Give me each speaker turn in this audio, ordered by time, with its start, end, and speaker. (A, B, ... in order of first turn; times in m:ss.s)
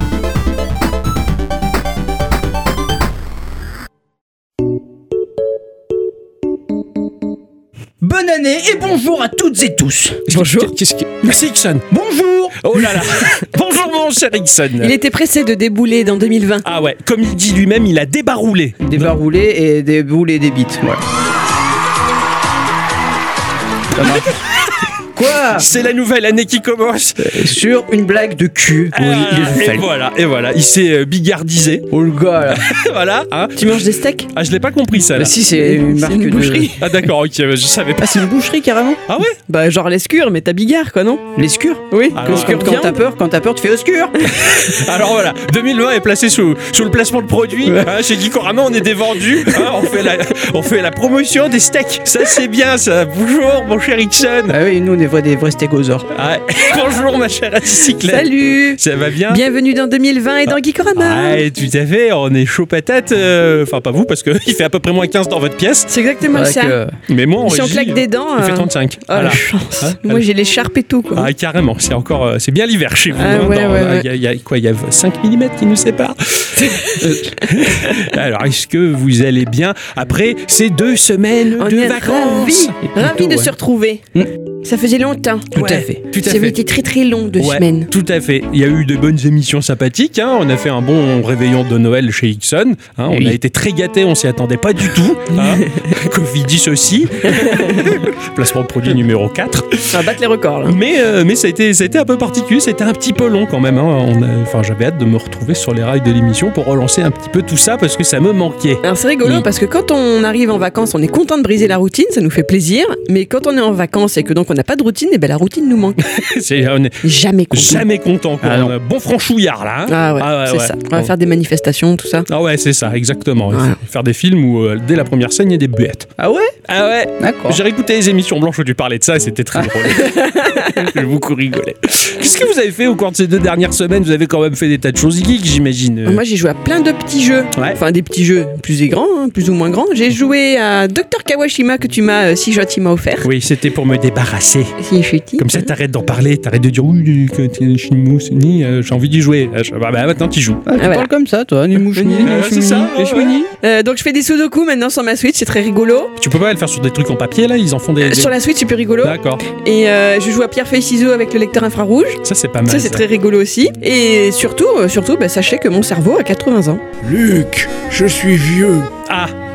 0:08.0-0:10.3 A
0:10.3-0:11.9 B
0:10.3-0:10.7 C
0:11.9-0:12.8 A
0:12.6-0:15.0 B
0:14.8-0:16.6 C
0:16.6-0:19.1 B
0:18.8-0:21.0 A
0:23.9-0:24.4 A
0:24.0-0:24.7 B
0:25.1-0:25.7 A
0:25.5-0:27.5 B
0:27.2-0:29.9 A
0:28.9-0:31.9 B
0:31.9-0:32.7 A
0:32.5-0:35.4 B
0:33.6-0:34.3 C
0:35.1-0:36.8 A
0:35.5-0:36.9 C
0:36.8-0:38.3 B
0:38.0-0:39.0 A
0:39.1-0:39.4 B
0:39.5-0:41.2 C
0:41.4-0:44.3 A
0:41.9-0:43.0 C
0:42.1-0:42.7 B
0:44.2-0:54.6 B
0:54.5-0:56.1 A
0:56.1-0:59.4 B
0:58.0-1:01.4 C
1:00.5-1:05.9 B
1:05.9-1:06.8 C
1:06.3-1:06.9 A
1:07.1-1:10.2 B
1:07.4-1:11.3 C
1:11.1-1:22.7 B
1:13.1-1:14.0 C
1:16.6-1:18.1 C
1:17.0-1:17.4 A
1:21.6-1:24.0 C
1:22.8-1:23.5 A
1:24.6-1:27.9 C
1:25.5-1:26.0 A
1:25.5-1:26.6 B
1:27.4-1:40.0 B
1:33.1-1:33.4 A
1:35.4-1:35.8 C
1:37.3-1:37.8 C
1:39.9-1:40.8 C
1:40.6-1:49.4 B
1:48.8-1:56.0 C
1:56.0-2:01.1 B
1:57.0-1:57.8 C
1:58.4-1:58.7 A
1:59.9-2:02.2 C
2:02.3-2:06.1 B
2:06.2-2:06.5 A
2:06.7-2:16.2 B
2:07.2-2:07.6 A
2:09.9-2:10.9 C
2:16.0-2:23.3 C
2:23.2-2:24.8 B
2:24.8-2:25.7 C
2:25.4-2:30.6 B
2:30.6-2:33.3 A
2:30.8-2:31.1 C
2:31.9-2:32.3 C
2:32.2-2:33.4 B
2:33.0-2:36.1 C
2:36.2-2:38.3 B
2:38.0-2:46.8 C
2:39.0-2:39.4 B
2:42.2-2:43.0 B
2:47.0-2:48.9 A
2:49.0-2:49.3 B